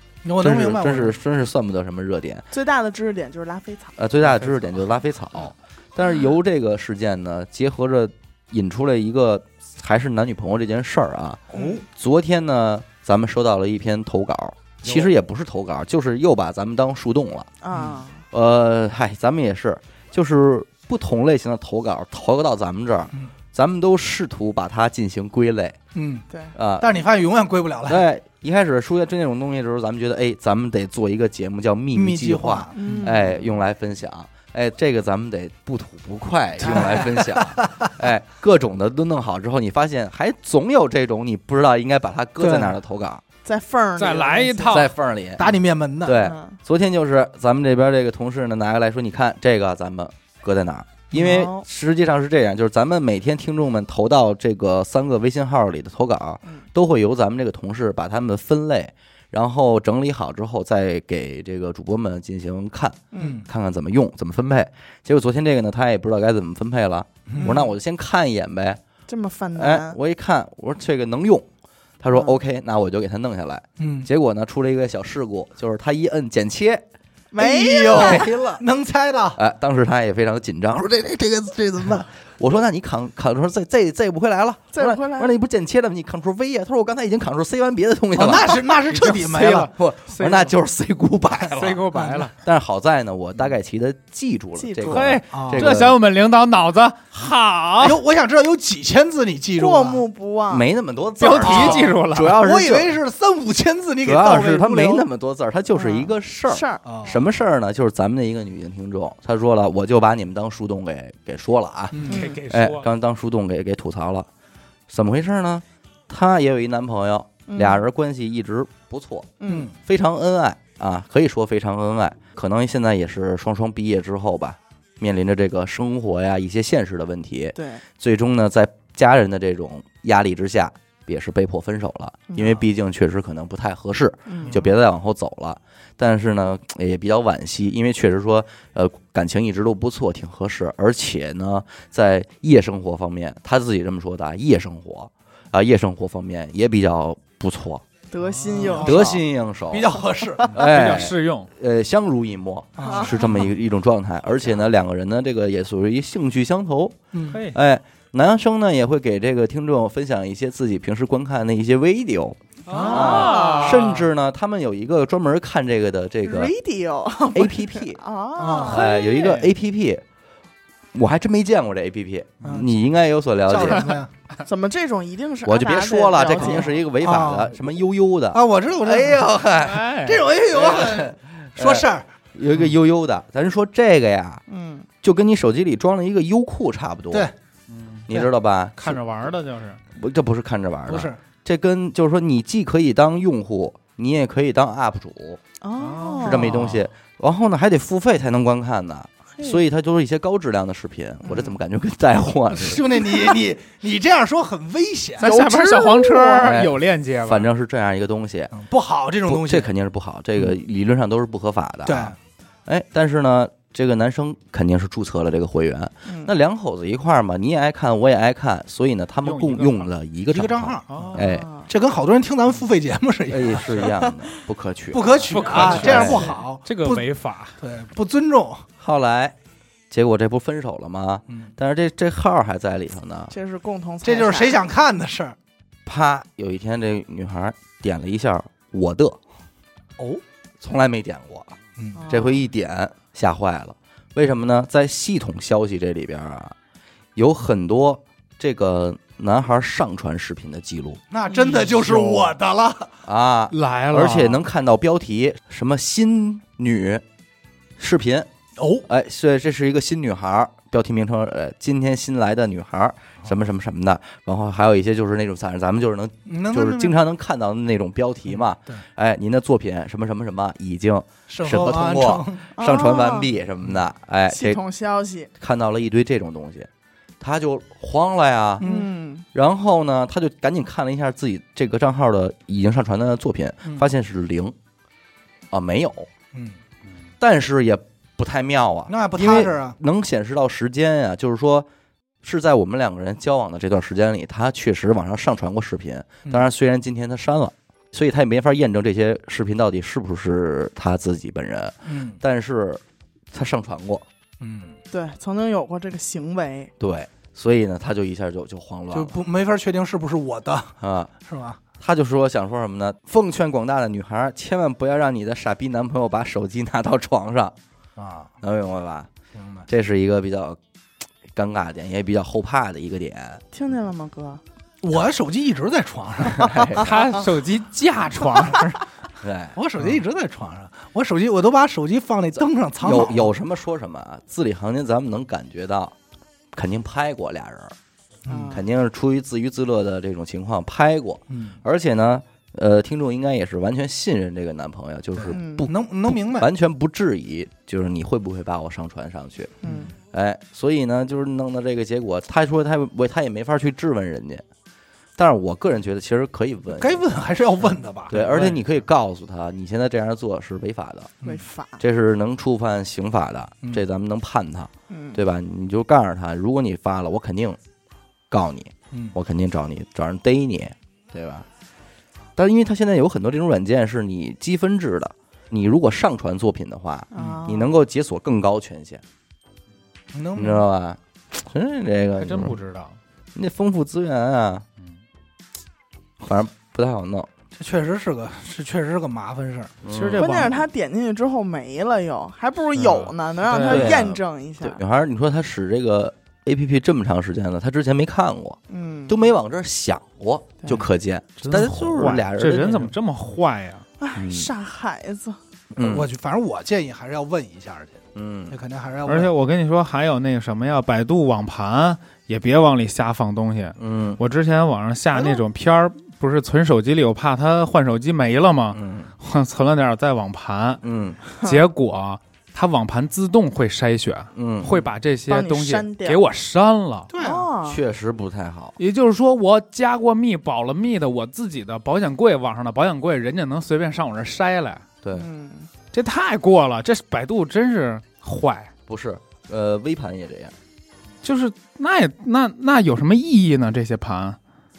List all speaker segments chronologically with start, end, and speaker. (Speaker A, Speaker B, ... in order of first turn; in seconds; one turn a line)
Speaker A: 0.2-1.1
Speaker B: 0.4-2.5
Speaker C: 2.5-4.0
Speaker B: 4.0-17.5
Speaker D: 4.2-4.7
Speaker A: 11.5-11.8
Speaker C: 11.5-11.8
Speaker C: 17.6-18.2
Speaker A: 17.7-18.0
Speaker B: 18.3-25.8
Speaker A: 25.9-26.2
Speaker C: 26.3-26.5
Speaker B: 26.5-26.9
Speaker A: 26.8-28.0
Speaker B: 27.9-43.2
Speaker A: 31.9-33.1
Speaker C: 32.7-33.3
Speaker C: 36.6-37.1
Speaker A: 36.6-37.9
Speaker A: 42.4-42.8
Speaker C: 43.4-44.8
Speaker D: 44.0-44.9
Speaker B: 44.7-68.8
Speaker A: 45.4-46.2
Speaker C: 46.2-46.6
Speaker C: 51.1-51.6
Speaker C: 63.1-63.4
Speaker A: 63.2-63.5
Speaker A: 67.3-67.6
Speaker C: 67.4-67.7
Speaker C: 69.1-70.0
Speaker B: 69.5-71.5
Speaker B: 72.0-76.8
Speaker C: 72.1-72.4
Speaker A: 73.8-74.1
Speaker C: 77.3-78.4
Speaker B: 77.4-78.6
Speaker A: 77.4-79.4
Speaker B: 79.3-88.6
Speaker C: 84.7-85.3
Speaker A: 88.2-89.7
Speaker D: 88.7-90.5
Speaker B: 89.6-91.8
Speaker D: 91.5-92.3
Speaker A: 91.9-92.3
Speaker B: 92.4-96.0
Speaker C: 94.5-95.2
Speaker D: 94.8-98.0
Speaker A: 95.3-95.7
Speaker A: 97.8-100.0
Speaker C: 99.6-100.7
Speaker B: 100.5-103.0
Speaker D: 101.2-102.4
Speaker A: 101.4-105.0
Speaker B: 104.0-114.3
Speaker C: 105.7-106.8
Speaker A: 106.8-107.2
Speaker A: 111.9-112.2
Speaker D: 112.0-112.9
Speaker C: 112.1-112.4
Speaker B: 114.9-147.8
Speaker C: 117.5-117.8
Speaker C: 119.4-119.7
Speaker A: 119.5-119.7
Speaker C: 127.5-127.8
Speaker C: 132.3-132.6
Speaker C: 134.2-134.6
Speaker C: 148.1-149.1
Speaker A: 148.4-150.6
Speaker B: 148.8-149.9
Speaker B: 150.5-157.0
Speaker D: 150.5-151.5
Speaker A: 152.8-153.5
Speaker C: 152.8-153.1
Speaker A: 157.1-157.4
Speaker D: 157.3-157.6
Speaker B: 157.5-166.5
Speaker D: 162.7-164.0
Speaker A: 162.7-163.4
Speaker C: 162.7-164.0
Speaker C: 166.2-169.4
Speaker B: 167.3-168.0
Speaker A: 168.4-168.8
Speaker B: 168.6-170.0
Speaker D: 168.8-169.5
Speaker B: 170.9-174.0
Speaker A: 172.4-172.7
Speaker A: 173.5-174.1
Speaker C: 174.4-176.7
Speaker B: 175.4-179.9
Speaker A: 176.4-177.5
Speaker A: 178.3-179.2
Speaker D: 179.6-180.3
Speaker A: 180.0-182.0
Speaker B: 180.5-184.4
Speaker C: 184.5-184.9
Speaker B: 185.0-187.3
Speaker D: 187.7-188.1
Speaker B: 188.1-189.0
Speaker D: 188.8-189.8
Speaker B: 189.9-195.4
Speaker A: 190.9-191.2
Speaker C: 195.6-196.5
Speaker D: 195.8-196.8
Speaker B: 196.2-202.8
Speaker C: 201.2-201.6
Speaker A: 202.5-205.3
Speaker D: 205.2-207.5
Speaker C: 205.2-206.5
Speaker B: 206.4-208.5
Speaker A: 208.5-209.7
Speaker B: 209.2-221.4
Speaker A: 211.8-212.2
Speaker C: 216.1-216.3
Speaker D: 219.2-219.9
Speaker A: 220.3-224.1
Speaker D: 220.9-221.2
Speaker C: 221.2-221.7
Speaker B: 223.3-226.3
Speaker A: 224.9-227.0
Speaker D: 225.3-227.6
Speaker A: 227.6-228.7
Speaker B: 228.8-229.3
Speaker B: 229.9-233.3
Speaker C: 233.3-234.6
Speaker A: 234.0-235.3
Speaker B: 235.8-239.2
Speaker B: 240.6-241.6
Speaker A: 241.8-242.0
Speaker C: 241.9-242.4
Speaker B: 242.1-246.6
Speaker B: 247.2-251.0
Speaker A: 251.1-252.9
Speaker C: 251.3-251.6
Speaker B: 253.0-257.0
Speaker D: 253.5-254.4
Speaker B: 257.8-258.3
Speaker A: 258.6-258.9
Speaker B: 258.9-274.6
Speaker A: 266.3-266.9
Speaker A: 268.3-268.8
Speaker A: 271.3-272.4
Speaker C: 272.6-273.3
Speaker C: 274.3-275.3
Speaker B: 275.4-276.7
Speaker B: 277.2-278.6
Speaker A: 278.6-278.9
Speaker C: 278.6-279.2
Speaker B: 279.3-284.5
Speaker B: 285.5-286.1
Speaker A: 286.3-286.6
Speaker B: 287.2-291.7
Speaker A: 288.9-289.8
Speaker B: 292.2-304.0
Speaker A: 301.8-302.2
Speaker A: 304.4-304.8
Speaker C: 304.9-306.7
Speaker B: 306.8-309.1
Speaker A: 308.9-311.6
Speaker B: 310.8-311.1
Speaker B: 311.8-317.5
Speaker A: 318.0-318.3
Speaker B: 318.4-319.1
Speaker A: 319.3-319.7
Speaker B: 319.7-320.6
Speaker B: 321.3-323.4
Speaker C: 323.5-324.4
Speaker A: 324.8-326.6
Speaker B: 326.4-326.9
Speaker D: 326.8-328.8
Speaker B: 329.2-330.0
Speaker A: 329.5-333.3
Speaker B: 332.8-335.9
Speaker B: 336.5-337.8
Speaker A: 338.3-338.5
Speaker C: 338.3-338.6
Speaker B: 338.5-349.5
Speaker A: 341.3-341.6
Speaker A: 345.1-346.5
Speaker C: 345.3-345.7
Speaker C: 349.6-349.9
Speaker A: 349.6-349.9
Speaker B: 350.1-354.4
Speaker B: 355.2-357.0
Speaker A: 356.7-358.4
Speaker B: 358.1-361.1
Speaker D: 358.1-358.6
Speaker C: 361.2-361.8
Speaker B: 361.8-367.6
Speaker C: 364.9-365.2
Speaker B: 368.3-371.4
Speaker B: 372.4-379.0
Speaker C: 377.1-377.8
Speaker A: 380.1-380.6
Speaker B: 380.3-382.6
Speaker D: 382.2-383.0
Speaker B: 383.3-384.6
Speaker B: 386.2-387.3
Speaker A: 387.6-389.7
Speaker B: 389.8-390.3
Speaker D: 389.9-390.7
Speaker C: 390.2-394.8
Speaker D: 392.8-394.0
Speaker B: 393.6-402.9
Speaker C: 398.7-399.2
Speaker D: 401.4-403.8
Speaker C: 404.0-405.4
Speaker B: 404.1-404.5
Speaker B: 405.7-406.1
Speaker A: 405.8-409.3
Speaker B: 408.1-408.6
Speaker D: 409.0-420.8
Speaker B: 413.8-414.2
Speaker A: 415.1-415.4
Speaker B: 418.7-419.1
Speaker B: 420.8-421.2
Speaker D: 421.4-427.1
Speaker B: 424.4-424.9
Speaker C: 425.3-426.2
Speaker A: 427.1-427.5
Speaker C: 427.2-427.8
Speaker B: 427.6-428.8
Speaker D: 428.8-434.8
Speaker C: 435.1-435.7
Speaker D: 435.9-438.7
Speaker B: 438.9-440.5
Speaker D: 441.2-444.4